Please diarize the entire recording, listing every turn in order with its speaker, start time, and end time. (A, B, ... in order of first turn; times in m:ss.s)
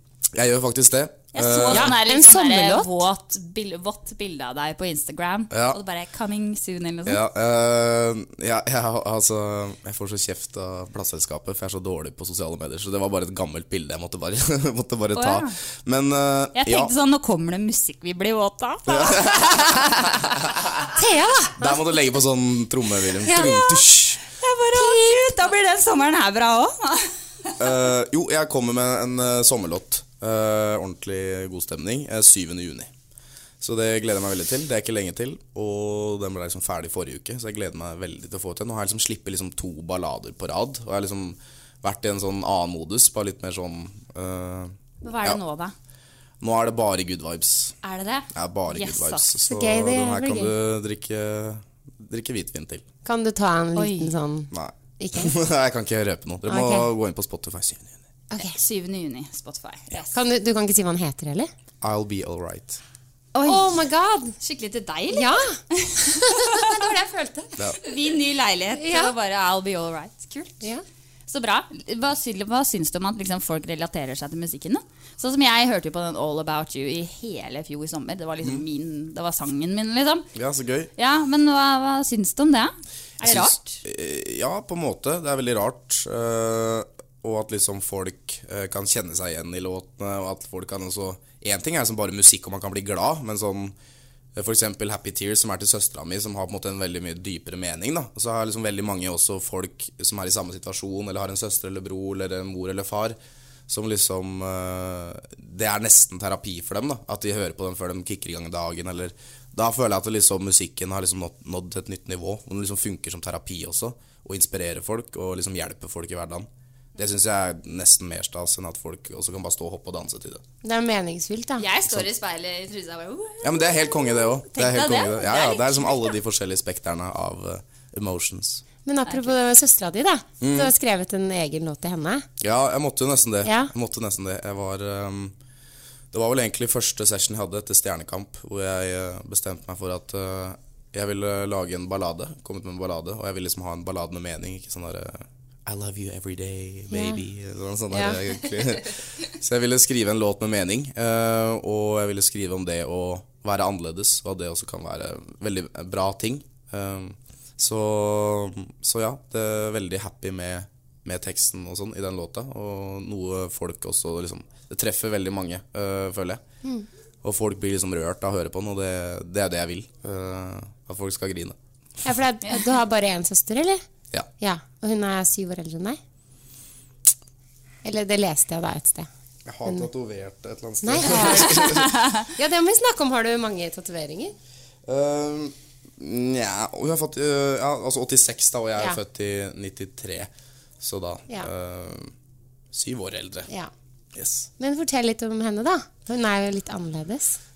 0:00.3-0:02.0 A
0:01.3-0:07.2 B
0:01.7-0:03.0 C
0:05.5-0:05.8 A
0:07.0-0:16.9 A
0:15.1-0:15.5 B
0:16.6-0:20.2 B
0:18.9-0:19.8 A
0:21.0-0:21.7 C
0:21.6-0:24.2 A
0:23.2-0:23.8 C
0:24.4-0:27.1 B
0:24.8-0:25.3 C
0:27.6-0:32.9 A
0:33.6-0:45.4 A
0:45.0-0:45.8 B
0:46.4-0:47.8 A
0:47.8-0:49.3 B
0:48.3-0:52.9 A
0:49.5-0:50.5 C
0:53.0-0:55.3 C
0:53.8-0:54.1 B
0:54.5-0:58.0 A
0:56.5-0:56.9 C
0:58.3-0:58.6 C
0:58.4-1:00.2 B
1:00.1-1:01.5 C
1:01.8-1:02.8 A
1:03.4-1:03.7 B
1:03.4-1:04.4 C
1:04.4-1:06.7 B
1:05.1-1:07.6 C
1:07.8-1:10.7 B
1:08.8-1:09.1 C
1:11.3-1:20.3 B
1:20.4-1:20.9 A
1:21.0-1:23.8 B
1:23.2-1:33.8 A
1:34.4-1:43.2 A
1:43.7-2:00.4 A
2:00.6-2:01.7 C
2:01.6-2:06.1 B
2:03.4-2:08.6 A
2:08.8-2:12.3 C
2:09.1-2:09.3 B
2:10.4-2:10.7 A
2:12.4-2:15.4 A
2:13.4-2:13.7 C
2:16.1-2:46.4 A
2:26.9-2:27.2 C
2:27.9-2:28.2 C
2:47.2-2:51.6 A
2:52.0-2:53.8 C
2:54.4-2:56.0 C
2:57.8-2:59.1 C
2:59.5-3:01.9 A
3:00.8-3:04.4 C
3:04.8-3:10.3 A
3:10.8-3:12.1 A
3:12.7-3:13.5 A
3:14.2-3:14.5 A
3:14.6-3:17.4 C